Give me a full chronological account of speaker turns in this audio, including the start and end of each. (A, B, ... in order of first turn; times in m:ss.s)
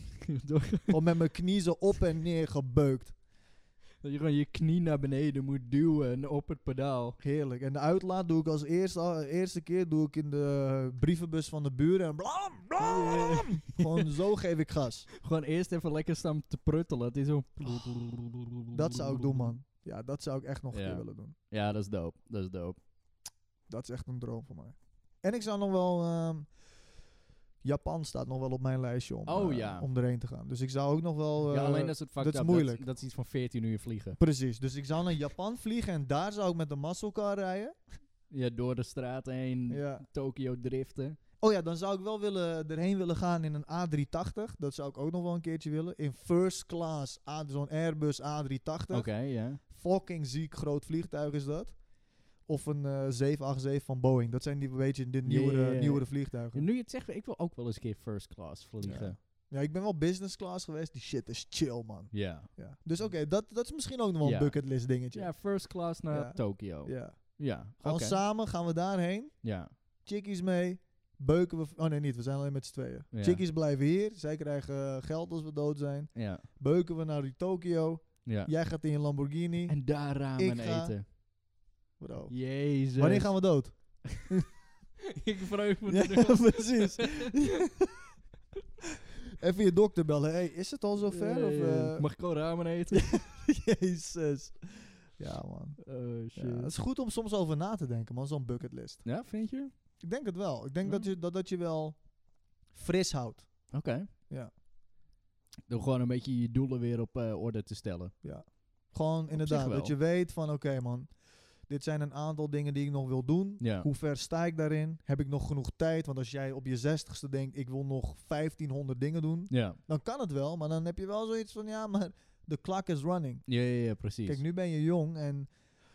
0:00.2-0:01.0 A
0:00.9-0:03.1 B
0:04.0-0:07.2 A
0:07.2-0:15.1 B
0:12.8-0:14.1 A
0:15.2-0:19.5 A
0:18.7-0:21.3 B
0:20.7-0:22.8 A
0:23.7-0:26.5 B
0:27.6-0:32.8 B
0:29.2-0:29.9 A
0:31.5-0:34.2 A
0:34.2-0:37.7 B
0:38.3-0:41.2 A
0:39.7-0:40.0 B
0:41.4-0:51.8 B
0:48.9-0:49.6 A
0:52.4-0:56.7 B
0:55.2-0:59.2 A
0:58.8-1:05.3 B
1:02.1-1:03.1 A
1:04.2-1:04.6 A
1:05.1-1:08.2 A
1:06.1-1:09.3 B
1:09.4-1:09.7 A
1:10.0-1:19.8 B
1:13.1-1:13.4 A
1:16.1-1:16.4 A
1:18.2-1:18.5 A
1:19.7-1:21.0 A
1:20.3-1:20.9 B
1:22.0-1:24.4 B
1:22.3-1:23.4 A
1:25.1-1:27.3 A
1:25.9-1:28.1 B
1:29.3-1:32.1 B
1:31.0-1:33.1 A
1:32.9-1:35.8 B
1:35.8-1:36.7 A
1:36.3-1:39.0 B
1:39.0-1:39.7 A
1:40.0-1:42.0 B
1:42.7-1:43.5 B
1:43.7-1:44.1 A
1:45.7-1:48.1 A
1:48.2-1:51.1 B
1:49.3-1:49.9 A
1:51.7-2:03.4 B
1:53.6-1:53.9 A
1:59.5-1:59.8 A
2:03.5-2:04.4 A
2:04.2-2:05.5 B